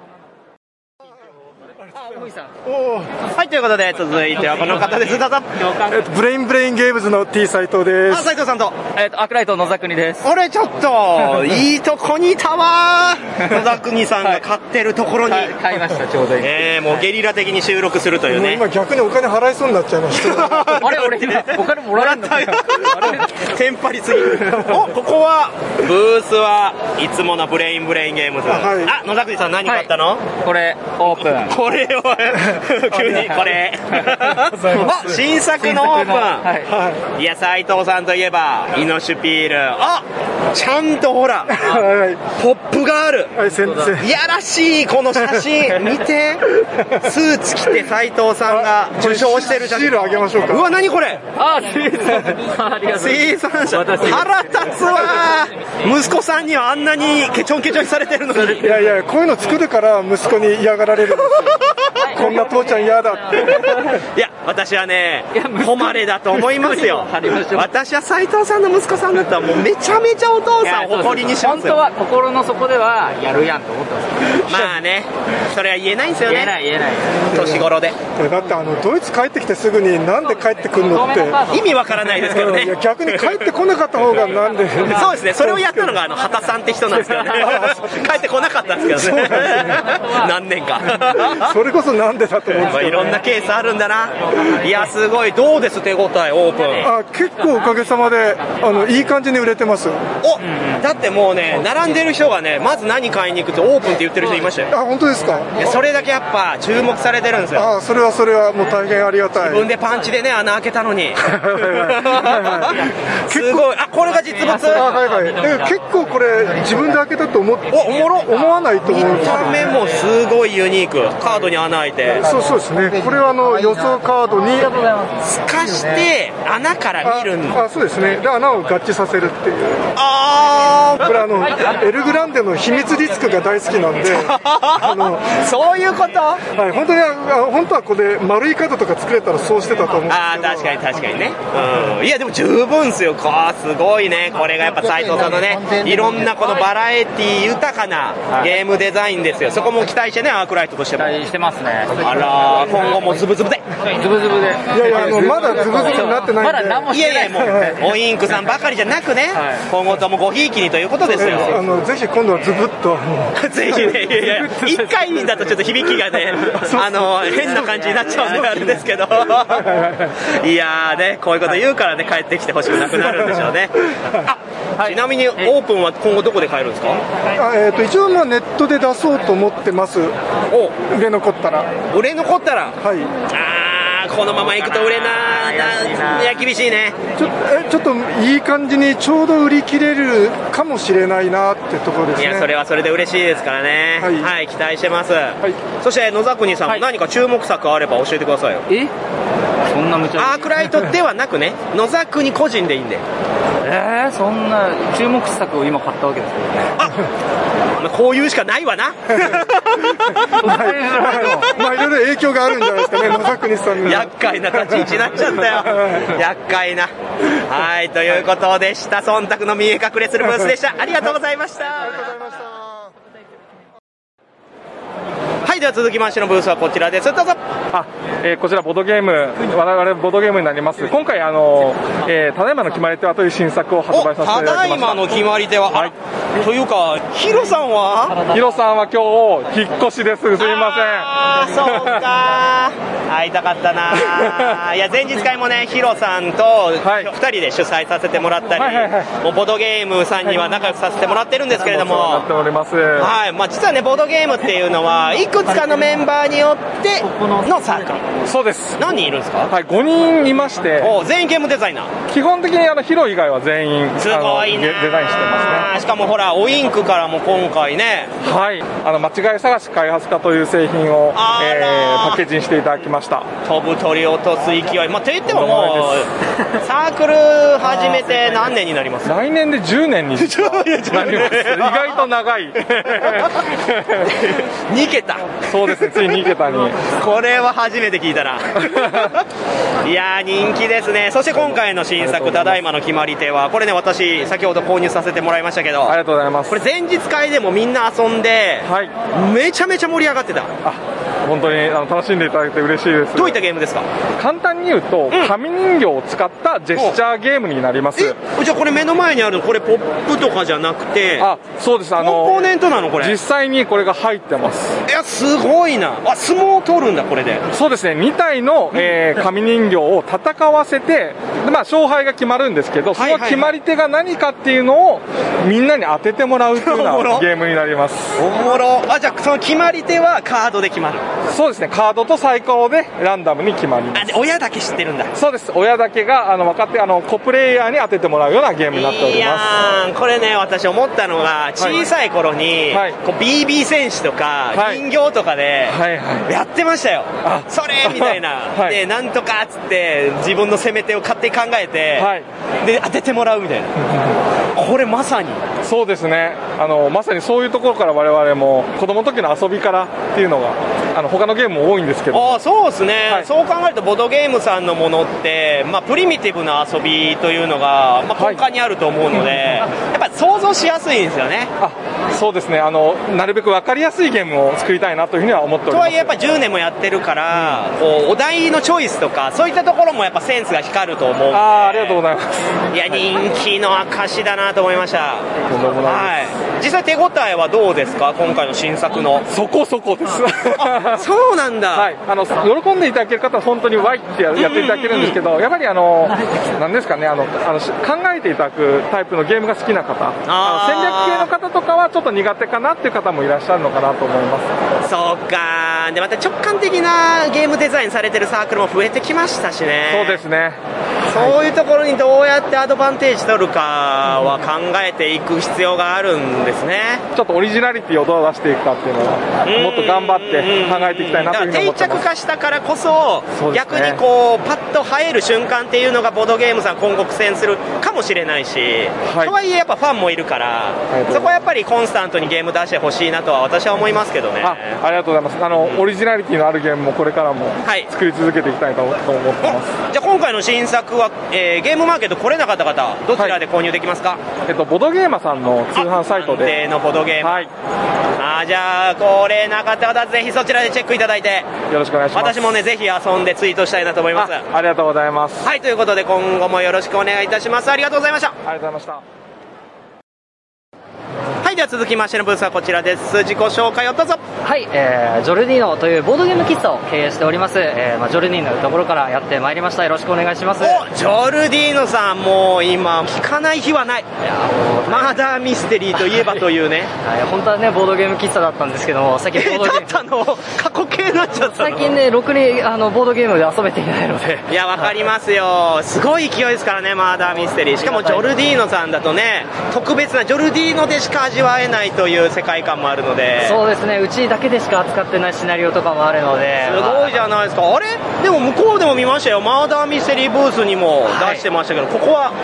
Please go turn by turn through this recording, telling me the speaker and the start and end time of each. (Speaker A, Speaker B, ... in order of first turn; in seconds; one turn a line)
Speaker A: 2.7-3.1
Speaker B: 3.3-5.5
Speaker A: 5.9-8.2
Speaker B: 8.1-8.8
Speaker C: 8.9-10.3
Speaker B: 10.2-15.6
Speaker C: 15.2-16.6
Speaker B: 16.4-18.6
Speaker A: 18.3-20.8
Speaker B: 20.1-30.3
Speaker C: 20.8-23.3
Speaker A: 28.5-28.9
Speaker C: 30.4-31.6
Speaker B: 31.0-36.5
Speaker C: 34.7-35.0
Speaker C: 35.6-36.7
Speaker A: 36.7-37.0
Speaker B: 37.1-41.7
Speaker A: 41.6-42.2
Speaker B: 42.3-43.3
Speaker A: 43.4-44.1
Speaker C: 43.6-43.9
Speaker B: 44.0-46.4
Speaker B: 47.0-51.3
Speaker A: 48.5-50.7
Speaker C: 51.4-55.1
Speaker B: 52.9-58.8
Speaker A: 58.6-61.5
Speaker A: 62.1-63.8
Speaker C: 62.1-62.7
Speaker C: 63.3-63.8
Speaker B: 64.1-71.8
Speaker C: 65.3-67.7
Speaker C: 70.6-74.7
Speaker B: 74.5-76.5
Speaker C: 76.2-77.2
Speaker B: 77.3-78.0
Speaker A: 77.3-81.4
Speaker C: 80.2-81.7
Speaker B: 81.5-83.5
Speaker A: 82.3-86.0
Speaker B: 84.8-91.5
Speaker A: 87.1-88.0
Speaker A: 88.9-89.8
Speaker A: 91.4-93.2
Speaker B: 92.7-96.9
Speaker A: 96.8-100.1
Speaker B: 100.2-104.7
Speaker A: 104.7-105.7
Speaker B: 105.6-107.7
Speaker A: 107.5-109.7
Speaker B: 109.4-112.7
Speaker A: 111.4-112.7
Speaker B: 113.3-114.9
Speaker A: 113.3-113.7
Speaker A: 114.5-119.5
Speaker B: 117.7-122.3
Speaker A: 122.1-124.8
Speaker B: 125.2-127.6
Speaker A: 127.0-129.9
Speaker B: 129.9-131.2
Speaker A: 131.0-135.3
Speaker B: 134.1-136.4
Speaker A: 136.5-140.7
Speaker B: 140.1-151.2
Speaker C: 151.0-152.0
Speaker B: 152.0-153.6
Speaker C: 153.9-157.7
Speaker A: 154.7-156.9
Speaker B: 156.9-161.6
Speaker A: 157.4-157.7
Speaker C: 159.3-159.6
Speaker A: 161.2-163.9
Speaker B: 163.4-169.6
Speaker A: 166.5-167.6
Speaker A: 168.3-168.7
Speaker A: 169.6-169.8
Speaker B: 170.3-173.7
Speaker B: 174.3-177.0
Speaker C: 174.8-175.5
Speaker A: 177.3-180.1
Speaker B: 180.5-180.8
Speaker A: 180.8-181.7
Speaker B: 181.9-182.8
Speaker A: 182.8-183.1
Speaker B: 183.3-186.9
Speaker C: 184.6-186.4
Speaker A: 187.2-192.5
Speaker B: 192.2-198.6
Speaker A: 194.0-194.3
Speaker C: 199.7-200.5
Speaker B: 200.2-203.0
Speaker C: 203.6-206.7
Speaker B: 207.8-210.2
Speaker A: 210.4-215.4
Speaker C: 210.4-211.5
Speaker B: 213.8-216.9
Speaker B: 217.5-222.2
Speaker A: 221.9-222.7
Speaker B: 225.4-227.4
Speaker D: 227.7-235.1
Speaker B: 233.9-238.2
Speaker D: 238.2-241.1
Speaker B: 240.4-252.2
Speaker D: 241.7-242.0
Speaker D: 246.8-247.1
Speaker D: 248.5-249.1
Speaker D: 251.6-253.1
Speaker B: 253.0-258.1
Speaker D: 258.2-258.8
Speaker B: 258.8-259.5
Speaker D: 259.5-260.9
Speaker B: 260.8-261.9
Speaker D: 262.1-265.7
Speaker B: 264.0-268.1
Speaker D: 268.2-273.3
Speaker B: 271.1-272.2
Speaker B: 273.4-276.1
Speaker D: 275.3-276.0
Speaker B: 276.6-279.2
Speaker D: 279.1-283.2
Speaker B: 280.2-282.0
Speaker B: 284.7-286.0
Speaker D: 285.5-286.8
Speaker B: 286.9-289.2
Speaker D: 288.7-289.0
Speaker B: 289.8-295.9
Speaker D: 291.3-292.6
Speaker D: 295.9-296.6
Speaker B: 296.5-300.5
Speaker D: 298.6-299.0
Speaker D: 300.6-303.4
Speaker B: 303.1-303.9
Speaker D: 304.2-308.2
Speaker B: 308.0-311.3
Speaker D: 311.2-314.8
Speaker B: 312.0-313.1
Speaker B: 314.9-317.4
Speaker D: 317.5-328.2
Speaker B: 322.9-323.5
Speaker B: 326.6-327.2
Speaker B: 328.2-331.0
Speaker D: 331.2-334.1
Speaker B: 333.9-335.1
Speaker D: 335.1-339.5
Speaker B: 338.7-352.1
Speaker D: 341.6-341.8
Speaker D: 342.7-343.0
Speaker D: 344.5-344.8
Speaker D: 345.7-346.3
Speaker D: 347.2-348.8
Speaker D: 352.0-352.2
Speaker B: 352.6-353.7
Speaker B: 354.5-355.5
Speaker D: 355.6-362.4
Speaker B: 362.1-371.5
Speaker D: 368.2-368.4
Speaker D: 371.6-376.1
Speaker B: 375.7-382.0
Speaker D: 377.3-377.6
Speaker D: 381.3-382.2
Speaker B: 382.7-385.3
Speaker D: 385.5-386.2
Speaker B: 385.9-389.2
Speaker D: 389.3-391.0
Speaker B: 390.6-391.9
Speaker D: 391.7-404.5
Speaker B: 394.4-395.1
Speaker B: 400.3-401.3
Speaker B: 404.8-410.2
Speaker D: 409.9-410.6
Speaker B: 411.1-417.0
Speaker D: 411.1-411.4
Speaker D: 417.1-422.0
Speaker B: 419.4-434.8
Speaker D: 423.3-424.0
Speaker D: 429.0-429.4
Speaker D: 430.9-431.4
Speaker D: 434.4-439.7
Speaker B: 439.4-444.2
Speaker D: 444.4-446.6
Speaker B: 445.8-447.4
Speaker D: 447.2-447.5
Speaker B: 448.2-451.6
Speaker D: 451.7-452.6
Speaker B: 452.1-454.4
Speaker D: 454.1-455.5
Speaker B: 455.4-458.3
Speaker D: 458.4-459.0
Speaker B: 461.4-464.2
Speaker E: 464.4-470.8
Speaker B: 470.6-474.1
Speaker E: 474.2-475.2
Speaker B: 474.9-476.9
Speaker E: 476.1-476.4
Speaker E: 477.0-480.0
Speaker B: 479.4-481.9
Speaker E: 481.3-484.8
Speaker B: 484.5-493.6
Speaker E: 487.8-488.3
Speaker E: 493.4-497.1
Speaker B: 496.6-502.4
Speaker E: 501.1-501.4